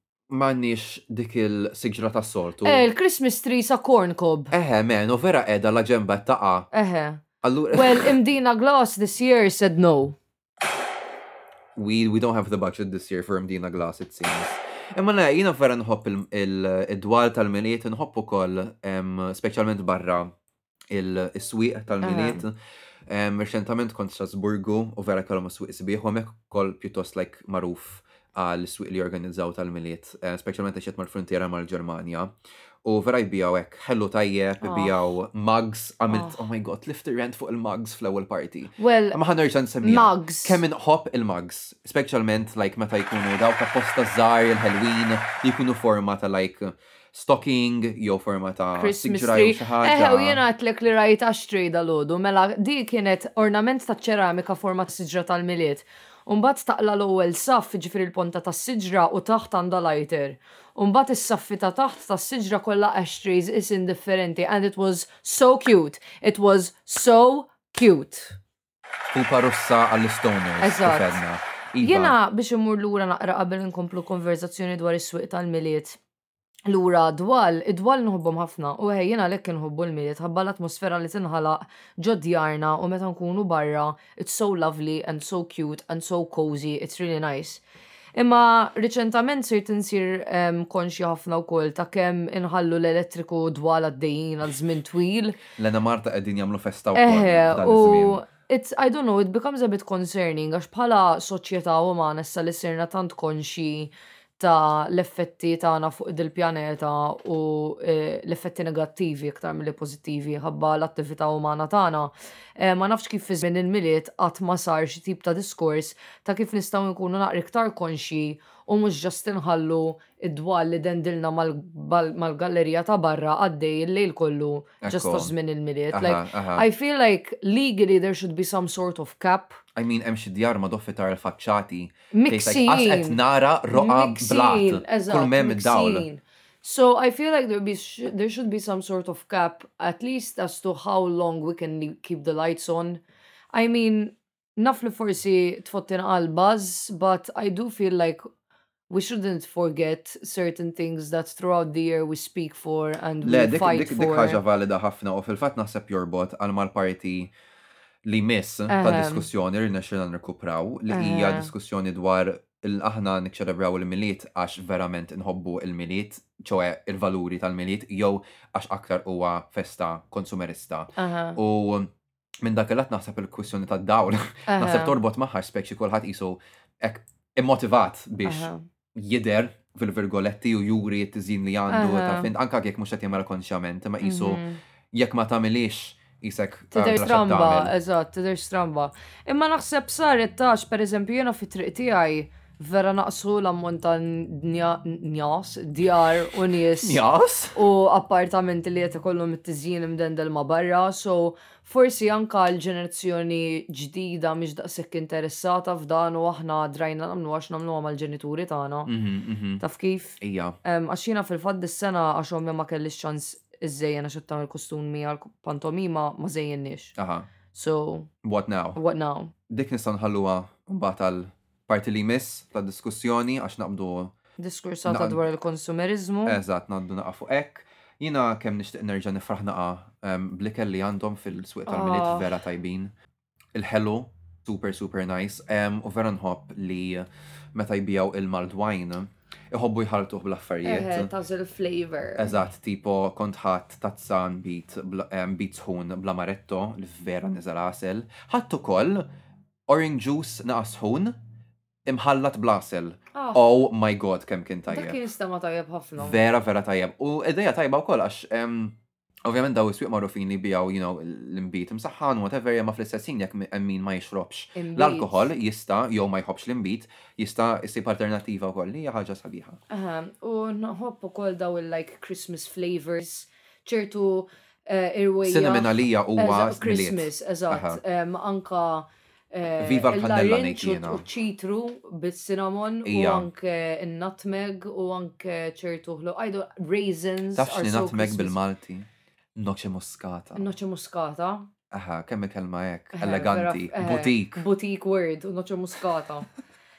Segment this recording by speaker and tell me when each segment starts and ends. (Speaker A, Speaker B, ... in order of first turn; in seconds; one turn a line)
Speaker A: 0.3-2.8
Speaker B: 2.6-4.5
Speaker A: 4.5-6.7
Speaker B: 6.7-10.2
Speaker A: 7.4-8.1
Speaker A: 11.8-20.3
Speaker A: 20.9-22.6
Speaker B: 22.0-22.4
Speaker A: 23.1-32.3
Speaker A: 32.8-50.4
Speaker B: 34.6-34.9
Speaker B: 36.1-36.4
Speaker B: 38.8-39.2
Speaker B: 39.8-40.6
Speaker B: 48.8-68.4
Speaker A: 69.1-72.2
Speaker B: 70.6-71.2
Speaker B: 71.8-76.0
Speaker B: 76.7-87.6
Speaker B: 88.2-95.4
Speaker A: 95.5-98.2
Speaker B: 97.0-129.6
Speaker A: 124.8-125.3
Speaker A: 125.9-126.7
Speaker A: 129.8-136.1
Speaker B: 132.1-133.2
Speaker B: 133.7-143.0
Speaker B: 143.5-148.2
Speaker B: 148.9-154.4
Speaker A: 153.2-157.3
Speaker A: 158.1-171.9
Speaker B: 158.7-159.3
Speaker B: 160.9-161.5
Speaker B: 171.0-171.4
Speaker A: 172.4-184.4
Speaker B: 174.5-175.0
Speaker B: 178.2-178.6
Speaker B: 181.7-182.3
Speaker B: 184.0-184.6
Speaker A: 184.9-187.7
Speaker B: 186.7-197.0
Speaker A: 196.8-197.6
Speaker B: 197.6-208.9
Speaker A: 208.9-209.6
Speaker B: 209.6-216.9
Speaker A: 210.2-210.6
Speaker A: 217.0-217.3
Speaker B: 217.5-218.1
Speaker A: 218.2-218.8
Speaker B: 218.8-219.3
Speaker A: 219.5-224.1
Speaker B: 224.4-226.4
Speaker A: 224.9-225.2
Speaker A: 226.3-232.9
Speaker B: 231.7-232.3
Speaker A: 233.6-241.1
Speaker B: 240.6-242.3
Speaker A: 242.2-249.1
Speaker A: 249.7-251.2
Speaker A: 251.9-255.0
Speaker B: 253.2-253.5
Speaker B: 254.7-256.2
Speaker A: 256.0-269.6
Speaker B: 264.6-265.3
Speaker B: 269.7-288.4
Speaker A: 275.2-277.8
Speaker A: 279.6-281.1
Speaker A: 282.9-283.3
Speaker A: 287.4-290.5
Speaker B: 290.4-291.5
Speaker A: 291.7-294.4
Speaker B: 292.9-296.3